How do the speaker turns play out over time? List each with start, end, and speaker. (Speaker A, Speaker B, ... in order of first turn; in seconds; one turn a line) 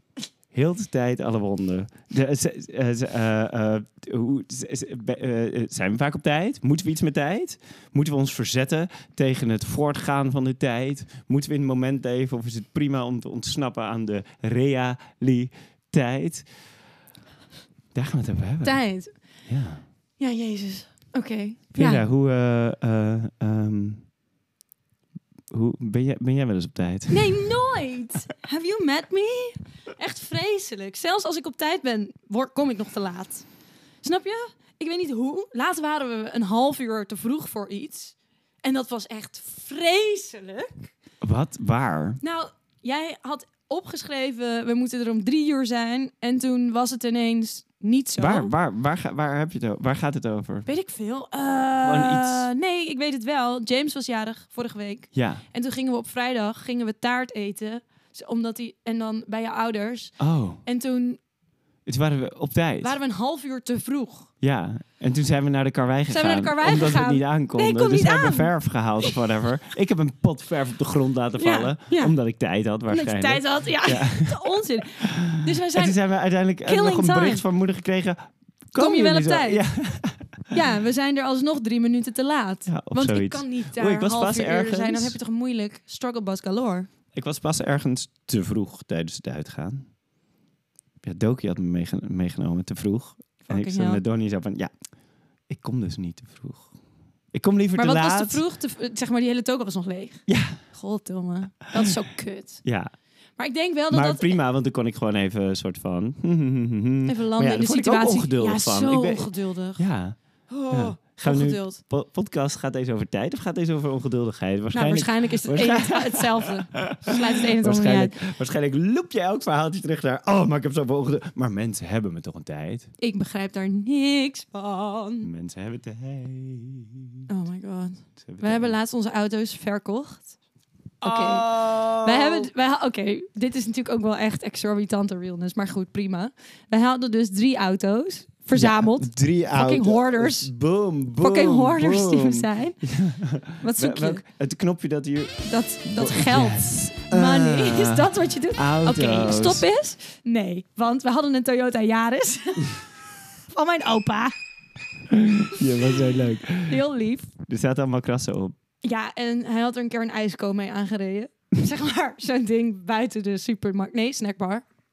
Speaker A: 0.5-16.5
Speaker A: 17.9-18.8
Speaker B: 18.6-19.2
Speaker A: 19.5-19.8
Speaker B: 20.2-22.1
Speaker A: 21.8-24.1
Speaker A: 25.5-27.4
Speaker B: 27.1-33.5
Speaker B: 34.0-40.9
Speaker A: 41.2-42.2
Speaker B: 42.2-48.5
Speaker A: 48.2-50.7
Speaker B: 50.7-61.2
Speaker A: 51.8-52.5
Speaker A: 55.1-55.4
Speaker A: 60.2-60.6
Speaker A: 61.9-63.0
Speaker B: 62.8-64.3
Speaker A: 64.4-80.6
Speaker B: 66.1-69.2
Speaker B: 71.4-72.2
Speaker B: 72.9-76.0
Speaker B: 76.6-77.5
Speaker B: 78.8-79.6
Speaker B: 80.5-86.9
Speaker A: 82.7-85.2
Speaker A: 87.1-89.9
Speaker A: 91.0-94.7
Speaker B: 93.5-94.0
Speaker A: 95.5-96.7
Speaker A: 97.3-98.4
Speaker B: 97.8-102.6
Speaker A: 100.3-100.6
Speaker A: 102.6-102.9
Speaker B: 103.4-104.4
Speaker A: 103.9-110.2
Speaker B: 107.0-109.9
Speaker B: 110.5-111.8
Speaker A: 110.7-122.9
Speaker B: 114.7-118.2
Speaker B: 123.0-125.3
Speaker A: 125.2-127.3
Speaker B: 127.3-130.3
Speaker A: 128.2-128.8
Speaker B: 131.0-140.5
Speaker A: 131.0-132.5
Speaker A: 138.5-149.7
Speaker B: 141.2-142.8
Speaker B: 143.6-144.2
Speaker B: 145.5-152.8
Speaker B: 153.5-154.3
Speaker A: 155.1-156.8
Speaker B: 156.7-157.3
Speaker A: 157.4-158.6
Speaker B: 158.8-164.6